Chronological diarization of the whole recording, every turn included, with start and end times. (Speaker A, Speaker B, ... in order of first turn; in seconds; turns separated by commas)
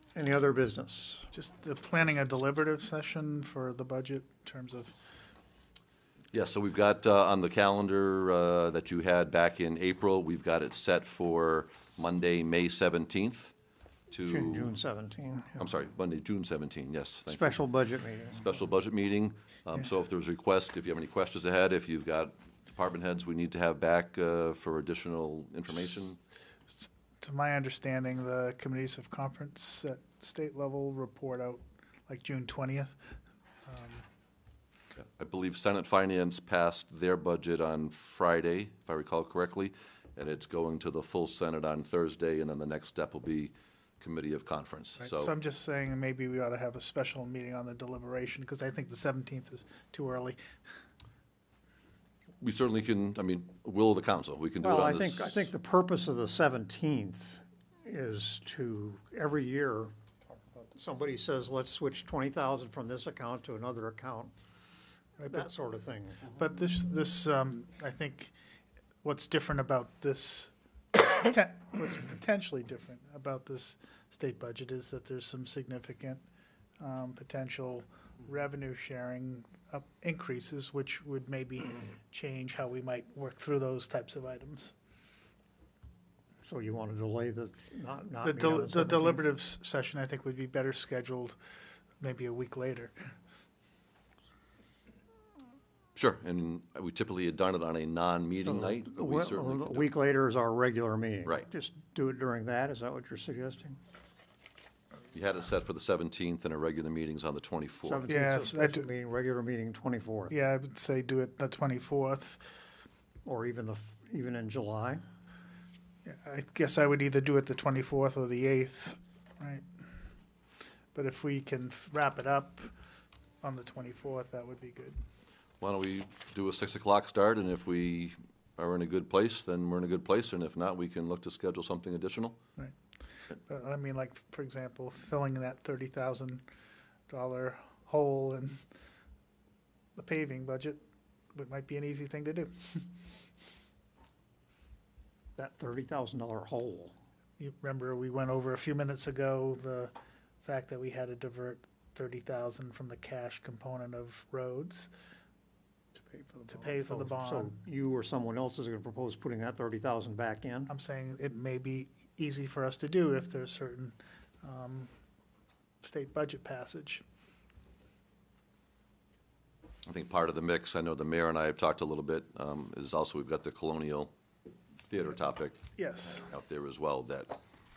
Speaker A: 0.1-1.3, Speaker B: 1.3-4.9, Speaker C: 6.3-13.5, Speaker C: 14.1-14.7, Speaker A: 14.3-15.6, Speaker C: 15.6-17.6, Speaker A: 17.3-18.4, Speaker C: 18.3-26.2, Speaker B: 26.8-32.9, Speaker B: 33.6-34.0, Speaker C: 35.0-45.3, Speaker B: 45.0-50.4, Speaker C: 52.4-55.4, Speaker A: 54.6-59.9, Speaker A: 60.7-64.3, Speaker B: 65.2-65.4, Speaker A: 65.2-66.3, Speaker B: 66.3-68.3, Speaker B: 69.0-76.2, Speaker B: 76.8-84.7, Speaker A: 86.4-89.2, Speaker B: 88.2-91.3, Speaker B: 92.0-92.9, Speaker C: 96.0-99.9, Speaker A: 98.4-103.8, Speaker C: 105.1-108.1, Speaker A: 107.8-110.3, Speaker B: 108.1-108.8, Speaker B: 110.3-112.4, Speaker A: 113.2-115.0, Speaker B: 116.0-119.6, Speaker B: 120.9-122.7, Speaker B: 123.4-125.0, Speaker C: 125.6-132.4, Speaker B: 133.4-136.4, Speaker B: 137.1-138.6, Speaker B: 139.9-140.8, Speaker B: 141.3-142.9, Speaker A: 145.4-146.9, Speaker B: 147.4-154.9, Speaker B: 156.5-157.5, Speaker A: 156.8-160.7, Speaker B: 160.7-164.9, Speaker B: 165.8-167.0, Speaker C: 169.8-174.1, Speaker C: 174.9-177.3, Speaker B: 175.8-176.3